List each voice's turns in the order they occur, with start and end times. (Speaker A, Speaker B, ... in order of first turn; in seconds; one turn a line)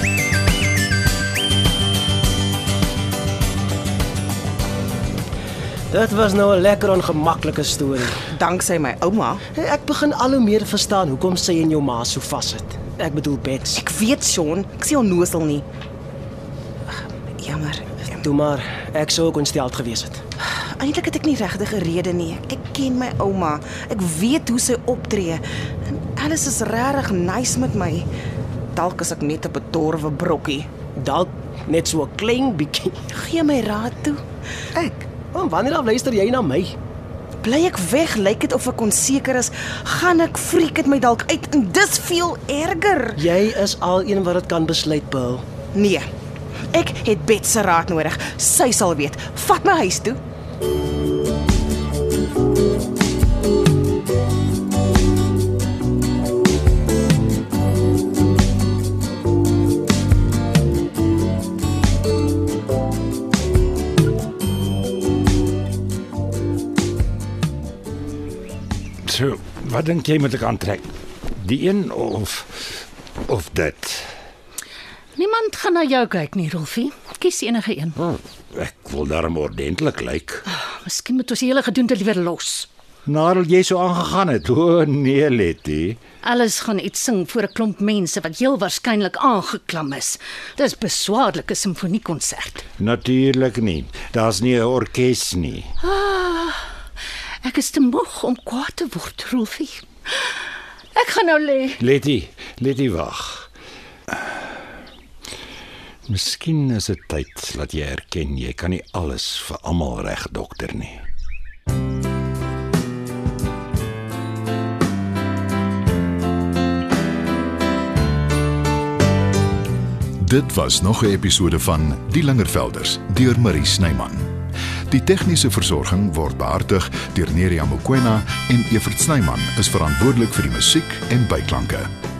Speaker A: 5.9-8.2
Speaker B: 8.3-9.4
Speaker A: 9.5-13.8
Speaker B: 13.7-15.6
Speaker B: 17.4-18.2
Speaker A: 18.2-20.2
Speaker B: 20.4-28.1
Speaker B: 28.7-30.7
Speaker A: 31.0-33.0
Speaker B: 33.1-34.2
Speaker A: 34.7-36.7
Speaker B: 37.4-43.2
Speaker A: 43.1-45.4
Speaker B: 45.7-46.0
Speaker B: 46.7-50.2
Speaker C: 69.0-74.1
Speaker D: 75.2-78.0
Speaker C: 78.0-80.4
Speaker D: 80.5-82.7
Speaker C: 83.0-86.0
Speaker D: 86.2-92.6
Speaker C: 92.8-95.7
Speaker D: 95.8-96.6
Speaker D: 97.4-100.3
Speaker D: 100.9-101.8
Speaker C: 101.8-103.5
Speaker C: 106.1-111.0
Speaker E: 120.2-124.2
Speaker E: 124.9-131.9